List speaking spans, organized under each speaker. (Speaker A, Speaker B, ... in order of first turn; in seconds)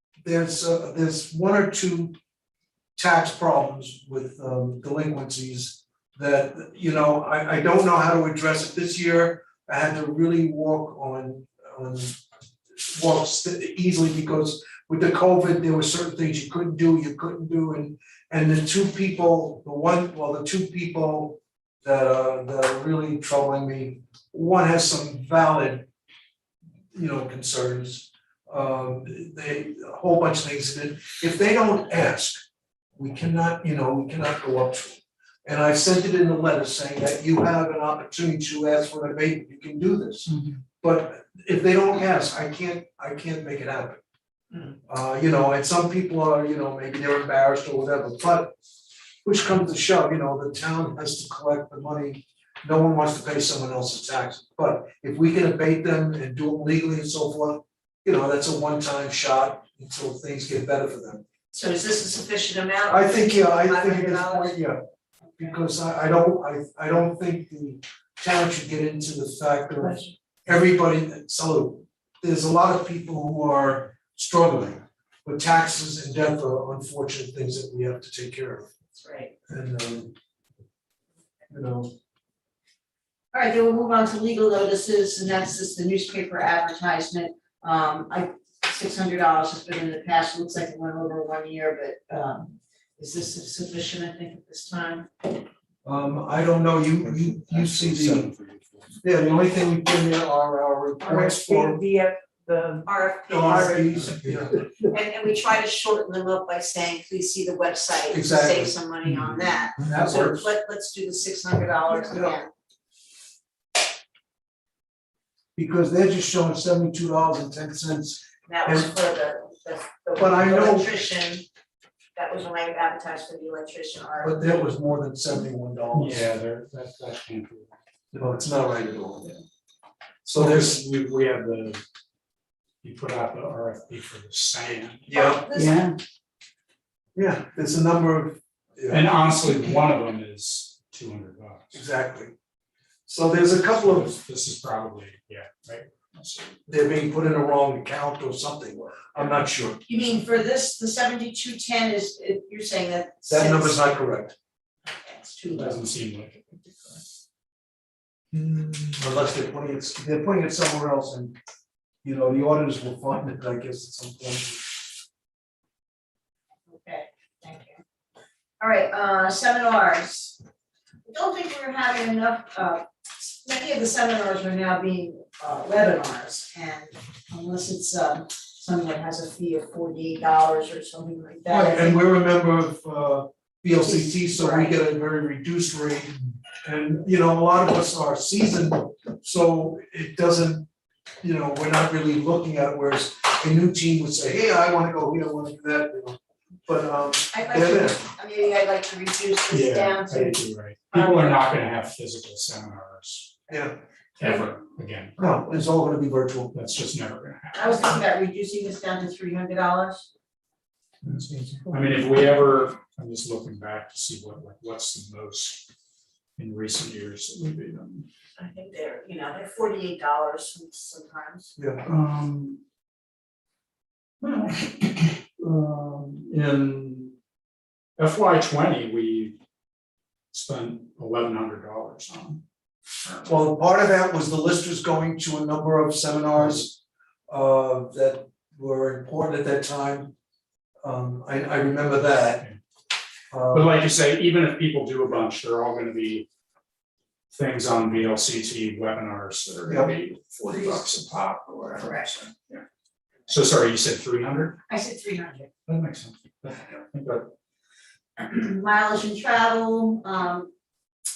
Speaker A: 0.2-2.1, 3.0-12.2, 12.8-25.9, 26.9-32.4, 33.0-44.0, 44.9-48.5, 49.2-61.2, 62.9-64.8, 65.4-78.7, 79.5-80.1, 81.5-81.9, 95.8-98.3, 99.0-101.8, 103.3-104.9, 108.1-108.8, 109.8-110.5, 112.1-112.3, 115.6-118.9, 120.2-121.0, 124.2-126.3, 128.1-129.4, 130.2-130.8, 135.1-135.4, 137.2-139.6, 141.7-142.3, 143.1-144.1, 146.7-149.8, 153.3-154.4, 158.3-161.4, 162.0-164.7, 181.5-190.7, 191.2-198.0, 203.5-203.8, 205.2-206.6, 211.2-211.6, 221.6-221.9, 233.3-240.1, 240.8-242.4, 243.3-243.7
Speaker B: 61.5-64.6, 69.8-70.1, 79.0-79.3, 83.3-95.1, 102.9-104.1, 104.8-112.5, 118.5-121.5, 122.2-124.6, 135.1-135.8, 149.9-154.0, 154.9-155.8, 166.7-167.8, 168.6-170.4, 171.1-182.0, 183.8-184.8, 197.3-200.4, 200.9-201.4, 207.5-210.1, 218.4-221.6, 251.8-252.1, 254.7-255.5, 258.2-260.5
Speaker C: 97.5-98.9, 109.0-109.4, 125.9-127.7, 130.3-131.8, 132.8-135.9, 138.9-141.8, 143.7-146.6, 155.5-157.0, 199.5-203.4, 204.2-205.2, 206.5-207.9, 211.1-215.7, 216.4-218.1, 221.8-222.6, 224.2-227.1, 228.0-229.4, 230.3-232.4, 233.0-233.4, 236.4-236.6, 243.5-246.3, 247.3-252.6, 253.3-254.6, 255.7-257.3
Speaker D: 101.0-102.9, 103.4-104.3